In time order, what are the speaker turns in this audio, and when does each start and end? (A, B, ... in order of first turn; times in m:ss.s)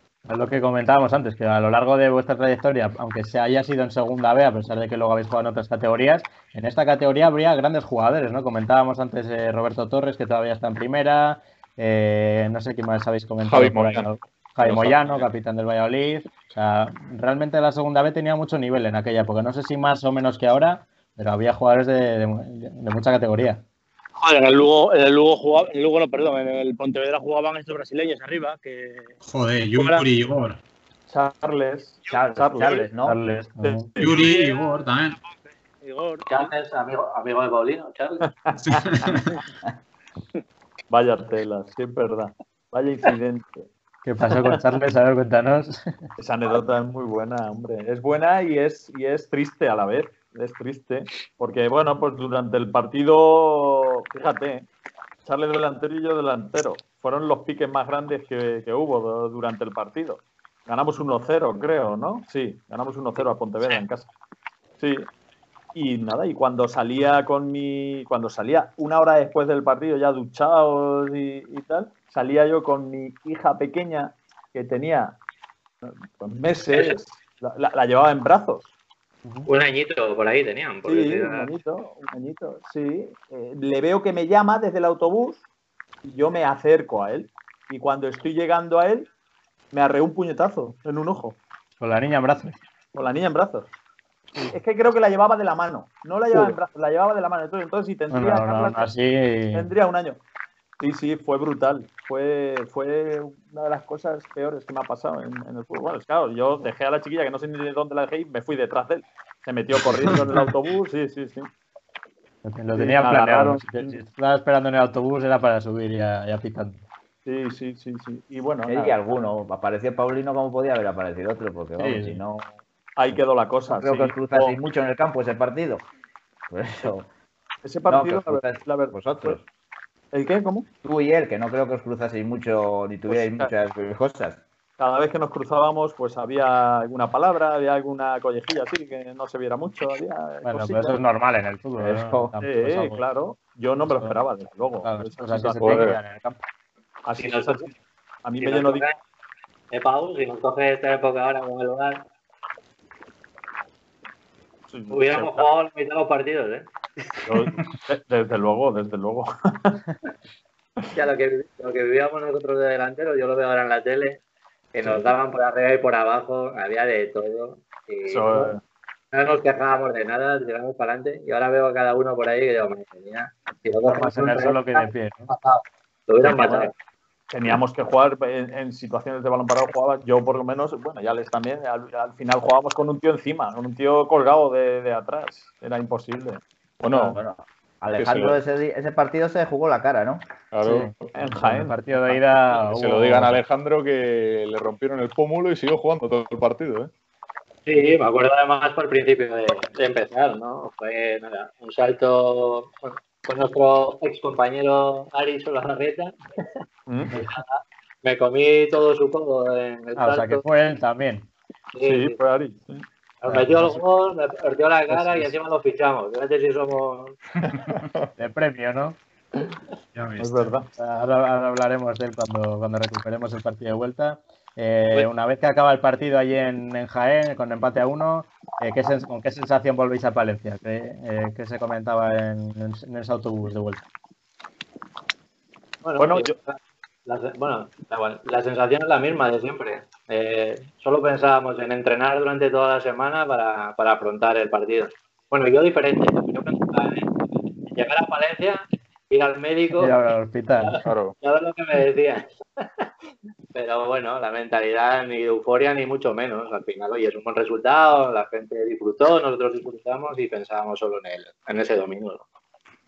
0:00.3-0:23.6 A
0:13.4-0:15.3 B
0:24.2-0:29.1 C
0:29.2-0:30.6 D
0:29.7-0:30.0 C
0:31.1-0:32.9 E
0:32.0-0:32.9 C
0:32.1-0:33.2 F
0:33.0-0:33.9 A
0:33.6-0:34.3 E
0:34.0-0:35.2 D
0:34.2-0:36.5 C
0:36.3-0:38.2 G
0:38.2-0:39.2 E
0:38.8-0:39.3 D
0:40.9-0:43.7 E
0:44.0-0:46.0 A
0:46.2-0:54.6 E
0:55.2-1:04.1 E
1:04.8-1:05.1 E
1:05.7-1:15.2 E
1:15.8-1:18.7 E
1:16.7-1:17.0 G
1:19.5-1:21.5 G
1:20.8-1:25.4 E
1:26.0-1:29.1 E
1:29.7-1:31.4 E
1:31.8-1:32.6 A
1:32.9-1:33.7 E
1:34.5-1:38.9 E
1:38.1-1:39.7 A
1:39.5-1:40.2 E
1:40.8-1:51.5 E
1:52.4-1:56.8 A
1:52.7-1:54.0 E
1:57.2-1:59.0 E
1:58.6-2:02.5 F
2:01.8-2:02.2 A
2:03.0-2:04.6 E
2:03.1-2:05.9 F
2:06.5-2:07.1 F
2:07.6-2:09.4 E
2:07.9-2:09.4 F
2:10.1-2:10.7 E
2:10.8-2:14.4 F
2:13.1-2:13.5 E
2:14.8-2:21.0 E
2:20.4-2:23.0 A
2:21.8-2:22.3 F
2:22.4-2:25.8 E
2:24.8-2:26.4 A
2:25.6-2:26.0 B
2:27.0-2:27.7 E
2:27.2-2:27.7 G
2:28.2-2:28.9 E
2:28.4-2:28.9 G
2:29.7-2:32.1 G
2:34.7-2:35.5 E
2:34.9-2:36.7 G
2:37.2-2:39.8 E
2:40.9-2:44.2 G
2:44.7-2:48.5 G
2:48.0-2:48.6 E
2:49.1-2:56.7 G
2:53.8-2:55.3 A
2:56.2-2:56.7 E
2:57.3-3:06.4 E
3:06.8-3:07.1 B
3:07.1-3:10.3 F
3:07.9-3:08.4 B
3:10.5-3:11.1 B
3:10.6-3:13.4 A
3:11.1-3:12.2 E
3:12.5-3:16.9 B
3:17.7-3:26.1 G
3:26.9-3:27.1 E
3:27.1-3:27.4 A
3:27.2-3:30.4 G
3:30.0-3:31.3 A
3:31.7-3:32.2 G
3:31.8-3:32.8 E
3:33.2-3:37.2 G
3:33.3-3:33.8 A
3:34.9-3:35.3 A
3:38.2-3:39.0 A
3:39.9-3:40.5 D
3:40.2-3:40.7 E
3:40.8-3:53.8 A
3:55.8-4:07.1 G
3:56.0-3:56.4 E
4:07.7-4:09.9 G
4:09.8-4:10.8 A
4:10.6-4:12.6 G
4:10.8-4:11.2 B
4:13.5-4:22.2 G